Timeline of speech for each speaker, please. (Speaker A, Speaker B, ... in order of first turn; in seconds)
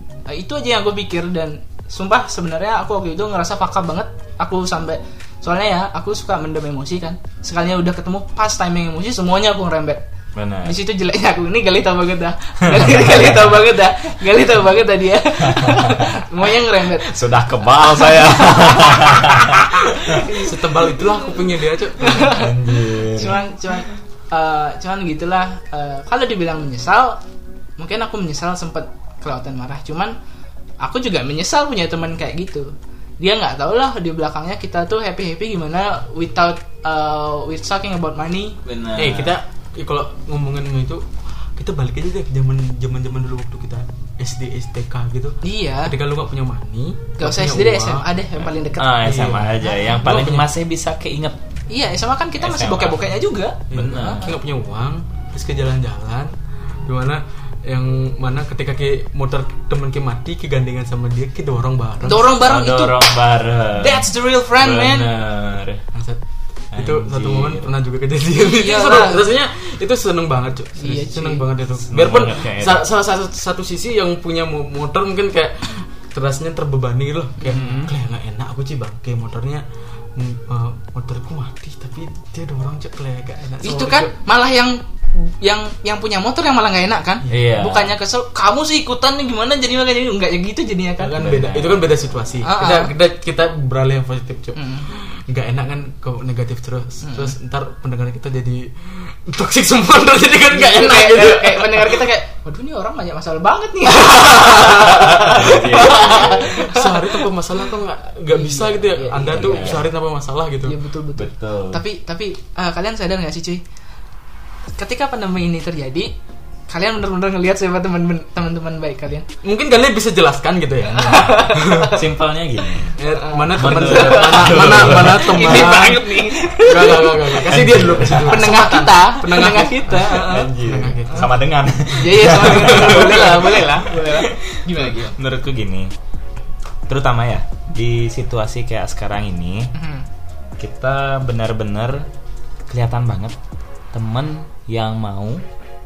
Speaker A: 0.3-10.0, 10.6-17.2, 17.9-21.2, 22.0-27.2, 27.8-30.1, 30.8-38.6, 45.4-45.9, 47.2-49.0, 49.7-50.0, 51.7-54.4, 62.0-63.1, 63.7-65.1, 68.4-69.3, 70.8-71.5, 83.6-91.3, 92.4-92.9, 94.5-94.9, 97.0-97.3, 100.5-107.2, 108.3-109.9, 110.7-113.6, 114.8-116.1, 116.7-119.3, 120.9-122.0, 123.1-130.5, 131.9-135.2, 139.8-140.1
Speaker B: 10.3-10.8, 12.7-13.6, 15.4-16.3, 17.0-20.3, 22.3-23.4, 38.6-39.4, 48.8-51.4, 52.4-53.0, 53.7-54.3, 62.4-65.8, 66.7-67.7, 71.9-72.8, 77.5-78.0, 87.3-88.0, 91.2-91.9, 104.7-106.6, 109.3-109.9, 111.2-111.8, 121.9-123.0, 123.5-125.7, 127.5-128.5, 130.1-135.9, 136.9-139.7, 140.6-142.1, 142.7-143.4, 143.9-145.4
Speaker C: 20.4-22.4, 39.0-48.1, 49.0-50.5, 53.7-62.3, 65.9-66.2, 66.7-79.6, 80.2-84.1, 91.0-102.1, 104.1-104.7, 105.8-110.8, 119.4-122.0, 123.0-131.3, 132.3-133.3